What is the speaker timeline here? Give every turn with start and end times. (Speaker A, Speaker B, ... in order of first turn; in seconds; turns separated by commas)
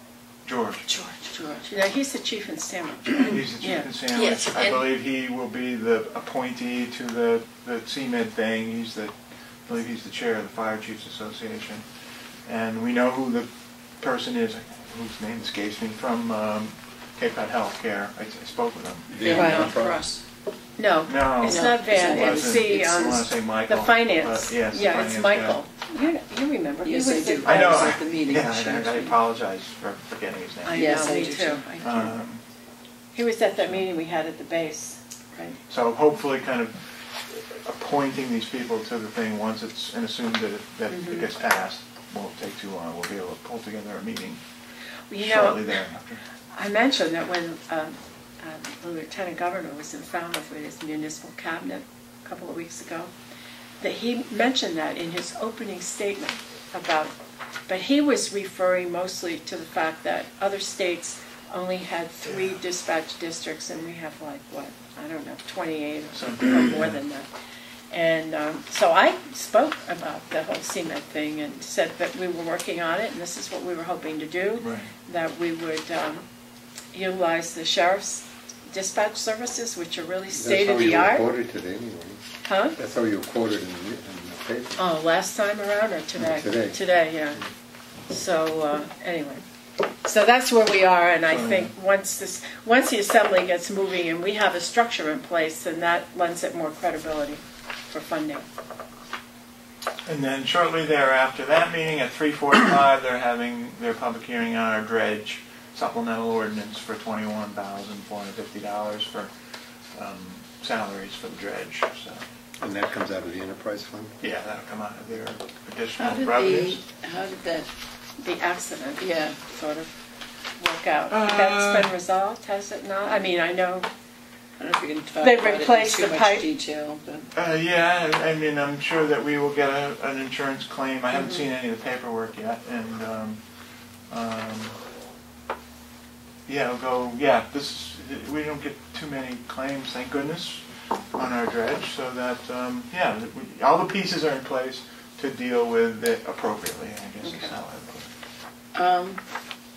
Speaker A: 0.5-0.9, Speaker B: 0.9-1.8, Speaker C: 1.7-3.9, Speaker A: 3.2-9.1, Speaker B: 4.1-4.8, Speaker A: 9.7-11.8, Speaker A: 12.5-13.5, Speaker A: 14.0-19.7, Speaker D: 19.1-20.0, Speaker B: 19.2-20.2, Speaker C: 19.3-19.7, Speaker C: 20.8-27.9, Speaker A: 21.1-25.6, Speaker B: 21.4-23.2, Speaker B: 26.8-29.2, Speaker A: 27.4-31.1, Speaker C: 30.6-32.1, Speaker B: 30.7-32.1, Speaker A: 31.8-32.4, Speaker C: 33.1-35.0, Speaker A: 33.6-33.9, Speaker A: 35.7-44.4, Speaker C: 40.9-41.3, Speaker C: 45.1-45.8, Speaker A: 45.2-46.2, Speaker C: 46.5-53.1, Speaker C: 53.8-57.1, Speaker C: 57.7-67.3, Speaker A: 62.2-62.6, Speaker A: 66.1-67.0, Speaker C: 67.9-76.2, Speaker A: 74.6-74.9, Speaker C: 76.9-81.2, Speaker D: 80.3-82.2, Speaker C: 82.5-82.8, Speaker D: 82.8-84.8, Speaker C: 84.8-87.5, Speaker D: 86.2-86.8, Speaker C: 88.1-89.4, Speaker C: 90.0-98.5, Speaker A: 91.3-91.7, Speaker A: 100.1-109.3, Speaker A: 110.0-112.2, Speaker D: 112.6-114.2, Speaker A: 114.2-116.8, Speaker B: 116.0-117.7, Speaker C: 118.2-119.1, Speaker B: 119.0-119.9, Speaker C: 120.6-123.9, Speaker A: 121.1-121.9, Speaker B: 124.6-127.3, Speaker C: 125.2-126.5, Speaker A: 127.3-133.4, Speaker A: 134.1-134.8, Speaker A: 136.5-148.1, Speaker B: 147.2-147.5, Speaker B: 148.7-149.2